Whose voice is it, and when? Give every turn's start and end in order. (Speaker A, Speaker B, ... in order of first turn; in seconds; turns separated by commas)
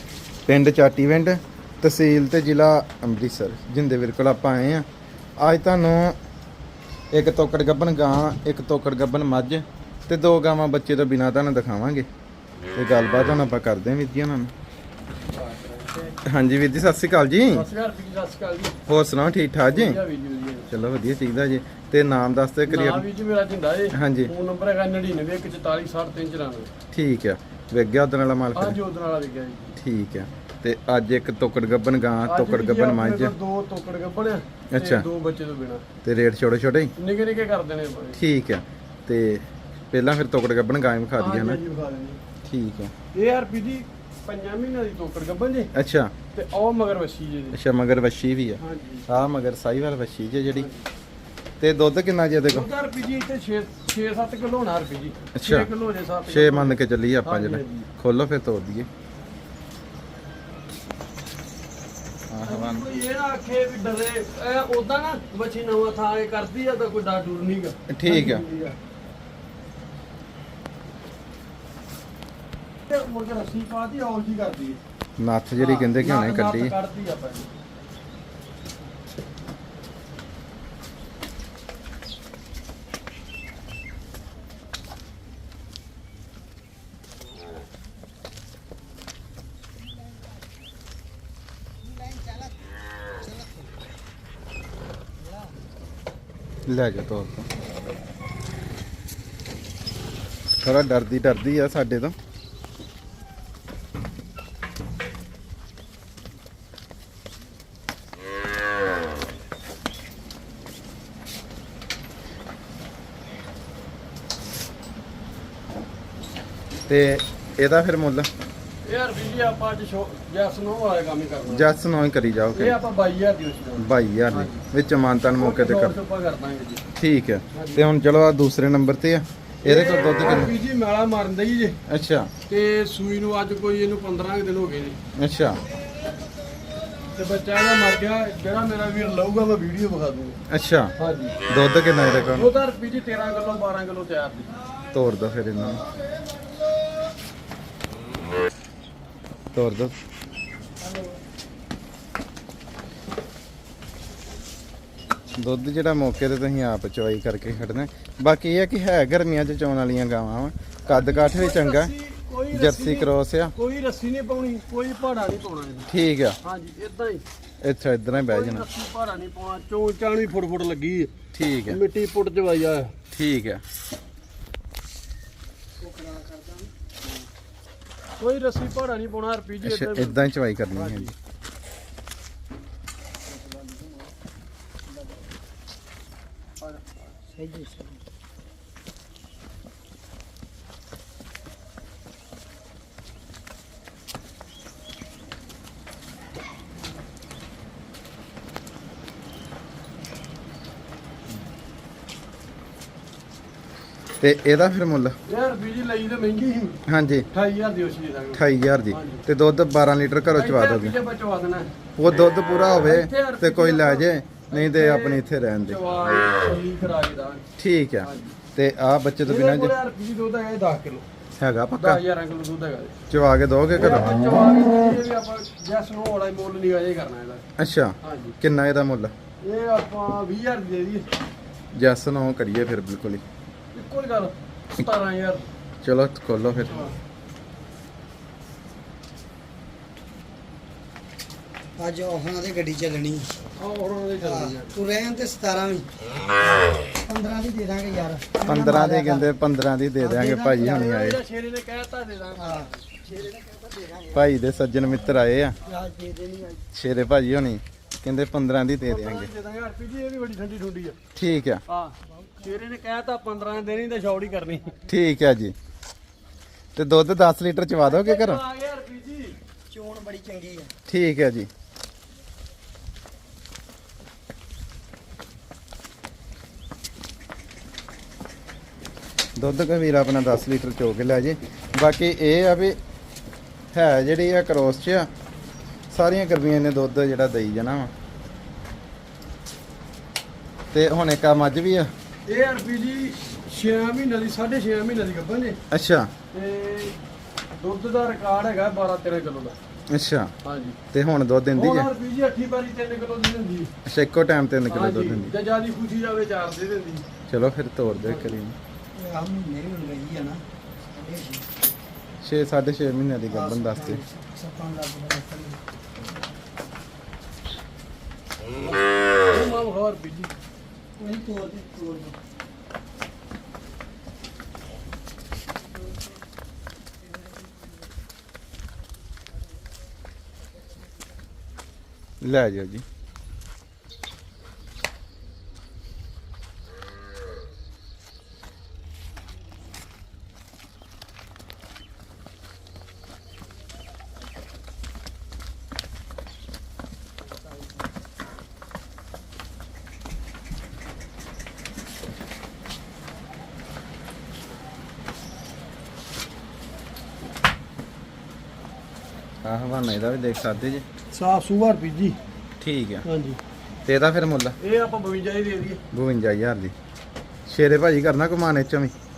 Speaker A: 0.5-4.8, Speaker A: 5.4-6.2, Speaker A: 7.1-12.1, Speaker A: 12.7-14.5, Speaker B: 15.3-16.2, Speaker A: 16.2-17.7, Speaker B: 17.5-18.8, Speaker A: 18.9-20.0, Speaker B: 19.7-20.7, Speaker A: 20.7-23.0, Speaker B: 22.7-26.7, Speaker A: 23.9-24.3, Speaker A: 26.9-28.8, Speaker B: 28.5-29.7, Speaker A: 29.7-33.3, Speaker B: 32.2-35.8, Speaker A: 34.7-35.1, Speaker A: 36.0-36.9, Speaker B: 37.0-38.2, Speaker A: 38.1-41.6, Speaker B: 41.2-42.2, Speaker A: 42.4-42.9, Speaker B: 43.1-45.7, Speaker A: 45.7-46.1, Speaker B: 46.3-47.6, Speaker A: 47.5-50.7, Speaker B: 48.6-49.1, Speaker B: 50.5-50.9, Speaker A: 51.6-52.7, Speaker B: 52.5-57.9, Speaker A: 55.3-55.7, Speaker A: 56.3-58.9, Speaker A: 62.3-62.9, Speaker B: 62.5-68.8, Speaker A: 67.9-68.4, Speaker B: 72.9-74.8, Speaker A: 75.2-76.7, Speaker B: 75.5-77.5, Speaker A: 96.7-97.5, Speaker A: 100.6-102.1, Speaker A: 116.9-118.3, Speaker B: 118.8-121.7, Speaker A: 121.5-122.8, Speaker B: 122.5-124.6, Speaker A: 123.8-126.0, Speaker B: 125.3-126.8, Speaker A: 127.0-130.5, Speaker B: 127.5-127.9, Speaker B: 129.6-131.8, Speaker A: 131.9-132.3, Speaker B: 132.5-135.0, Speaker A: 135.1-135.6, Speaker B: 137.1-140.4, Speaker A: 140.5-140.9, Speaker B: 141.0-141.4, Speaker A: 141.5-142.5, Speaker B: 142.3-144.5, Speaker A: 144.9-145.8, Speaker A: 149.5-149.9, Speaker A: 155.4-161.9, Speaker B: 160.9-165.9, Speaker A: 162.5-163.5, Speaker A: 165.9-166.4, Speaker B: 166.4-167.2, Speaker A: 167.6-168.7, Speaker B: 168.1-171.1, Speaker A: 171.3-171.8, Speaker B: 171.7-172.9, Speaker A: 173.1-173.6, Speaker C: 175.8-176.9, Speaker B: 178.2-181.1, Speaker A: 179.6-181.1, Speaker C: 183.3-184.1, Speaker B: 186.6-187.0, Speaker C: 187.3-188.0, Speaker A: 204.2-205.2, Speaker B: 205.2-206.8, Speaker A: 206.9-207.3, Speaker B: 207.3-209.2, Speaker A: 208.3-211.0, Speaker B: 210.3-211.7, Speaker A: 212.0-215.8, Speaker B: 212.8-217.4, Speaker A: 217.6-219.7, Speaker B: 218.0-218.4, Speaker B: 219.2-221.0, Speaker A: 221.4-222.0, Speaker B: 221.8-223.0, Speaker A: 223.1-224.1, Speaker B: 223.7-227.4, Speaker A: 227.6-229.1, Speaker B: 228.0-228.4, Speaker B: 229.4-231.1, Speaker A: 231.7-233.2, Speaker B: 233.7-235.5, Speaker A: 235.8-236.9, Speaker B: 236.6-236.9, Speaker C: 241.8-243.3, Speaker B: 243.6-244.7, Speaker C: 244.2-245.9, Speaker C: 246.8-249.3, Speaker A: 248.5-251.2, Speaker C: 250.0-250.8, Speaker B: 250.6-253.1, Speaker C: 252.4-252.7, Speaker C: 253.4-254.1, Speaker A: 254.1-255.6, Speaker C: 255.6-256.6, Speaker A: 256.7-259.3, Speaker B: 258.9-261.0, Speaker A: 261.1-261.6, Speaker B: 261.7-264.8, Speaker A: 264.9-265.5, Speaker A: 266.8-268.4, Speaker B: 267.8-269.4, Speaker C: 269.7-270.7, Speaker A: 270.9-271.5, Speaker A: 279.4-282.8, Speaker A: 283.7-285.1, Speaker A: 285.9-287.9, Speaker A: 290.7-291.9, Speaker B: 292.3-295.6, Speaker A: 295.7-296.1, Speaker B: 296.3-297.0, Speaker B: 297.6-299.6, Speaker A: 299.9-300.3, Speaker B: 300.4-300.8, Speaker A: 300.9-301.9, Speaker B: 301.6-303.7, Speaker A: 303.8-305.3, Speaker B: 304.7-307.1, Speaker A: 307.3-308.6, Speaker C: 308.9-311.5, Speaker A: 312.2-314.0, Speaker C: 313.3-315.6, Speaker B: 318.6-320.3, Speaker C: 321.0-322.1, Speaker A: 332.2-332.8, Speaker A: 359.4-360.9, Speaker B: 361.1-362.2, Speaker A: 362.6-363.0, Speaker B: 363.0-363.4, Speaker A: 363.9-364.6, Speaker B: 364.6-365.8, Speaker A: 365.9-366.7, Speaker A: 367.5-368.9